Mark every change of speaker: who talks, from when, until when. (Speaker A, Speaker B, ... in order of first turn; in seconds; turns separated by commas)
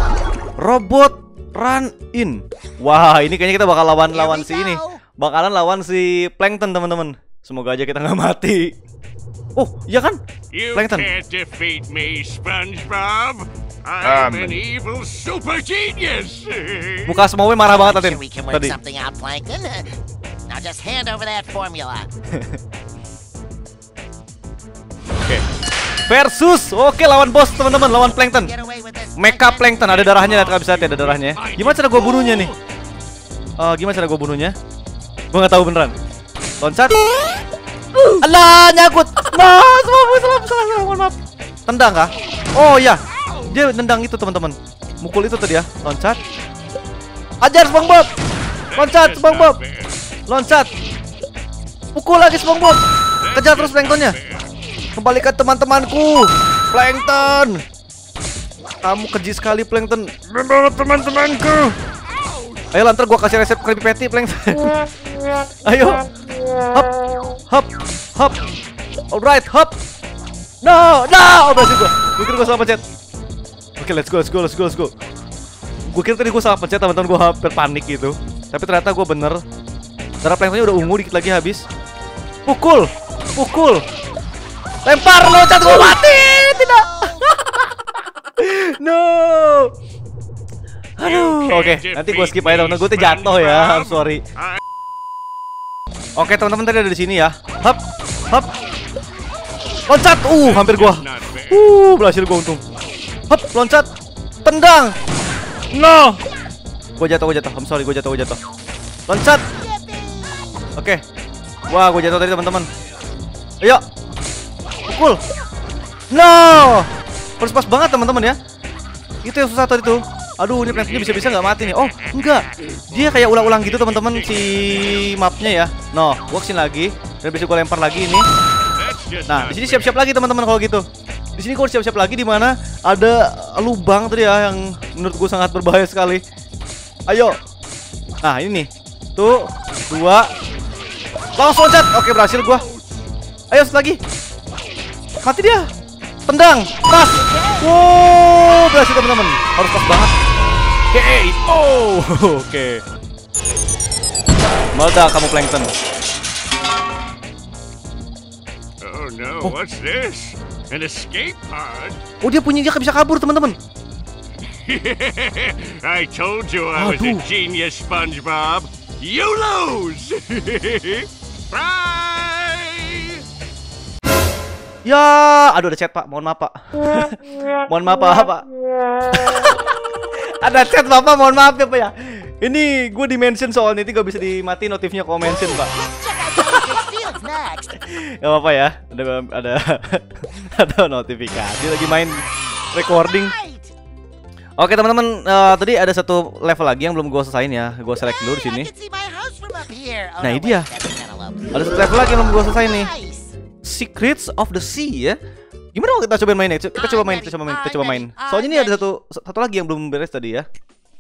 Speaker A: 0.6-8.7, Speaker B: 4.1-5.0, Speaker A: 9.6-10.2, Speaker C: 10.5-17.2, Speaker A: 10.7-11.1, Speaker A: 17.1-18.8, Speaker B: 17.6-22.1, Speaker A: 22.3-22.6, Speaker A: 26.1-28.5, Speaker B: 28.0-30.0, Speaker A: 29.2-32.5, Speaker C: 30.0-32.6, Speaker A: 33.6-34.5, Speaker A: 35.3-35.9, Speaker A: 36.6-37.0, Speaker A: 38.0-41.1, Speaker A: 41.7-46.2, Speaker A: 47.4-48.1, Speaker C: 48.7-50.0, Speaker A: 48.8-49.6, Speaker A: 50.3-50.7, Speaker A: 51.9-52.8, Speaker C: 53.2-54.5, Speaker A: 53.3-54.2, Speaker A: 55.0-57.6, Speaker A: 58.8-61.8, Speaker C: 62.4-62.6, Speaker A: 62.7-64.9, Speaker A: 65.7-66.0, Speaker A: 67.5-68.4, Speaker A: 69.1-69.7, Speaker A: 70.6-72.8, Speaker A: 73.8-74.9, Speaker A: 75.9-79.4, Speaker A: 80.2-81.6, Speaker A: 82.5-83.8, Speaker A: 84.8-89.7, Speaker B: 85.8-87.3, Speaker A: 91.0-94.2, Speaker C: 91.0-94.6, Speaker A: 96.2-98.5, Speaker A: 99.9-102.6, Speaker C: 100.4-101.7, Speaker A: 103.3-103.9, Speaker A: 104.4-105.0, Speaker A: 105.7-106.2, Speaker A: 107.0-108.4, Speaker A: 109.1-109.5, Speaker B: 109.4-110.7, Speaker A: 110.8-111.0, Speaker A: 111.7-112.7, Speaker A: 114.8-115.2, Speaker A: 116.1-118.4, Speaker A: 119.2-128.3, Speaker C: 120.9-121.4, Speaker C: 123.3-125.2, Speaker C: 128.8-129.9, Speaker A: 129.3-130.8, Speaker A: 131.4-136.2, Speaker A: 137.1-137.4, Speaker A: 138.2-140.3, Speaker A: 141.4-142.7, Speaker A: 143.5-144.0, Speaker A: 145.2-145.7, Speaker A: 146.3-150.1, Speaker B: 147.2-147.7, Speaker A: 150.9-152.8, Speaker A: 154.7-155.7, Speaker C: 158.8-162.0, Speaker A: 162.2-163.6, Speaker C: 164.6-173.3, Speaker A: 166.7-167.3, Speaker A: 174.8-178.5, Speaker A: 179.0-185.7, Speaker B: 185.5-187.8, Speaker A: 187.8-192.2, Speaker A: 192.7-193.3, Speaker B: 192.7-193.7, Speaker A: 194.6-198.7, Speaker B: 198.2-203.3, Speaker A: 200.2-200.7, Speaker A: 201.5-202.9, Speaker A: 203.6-205.2, Speaker A: 205.7-210.4, Speaker B: 206.8-208.9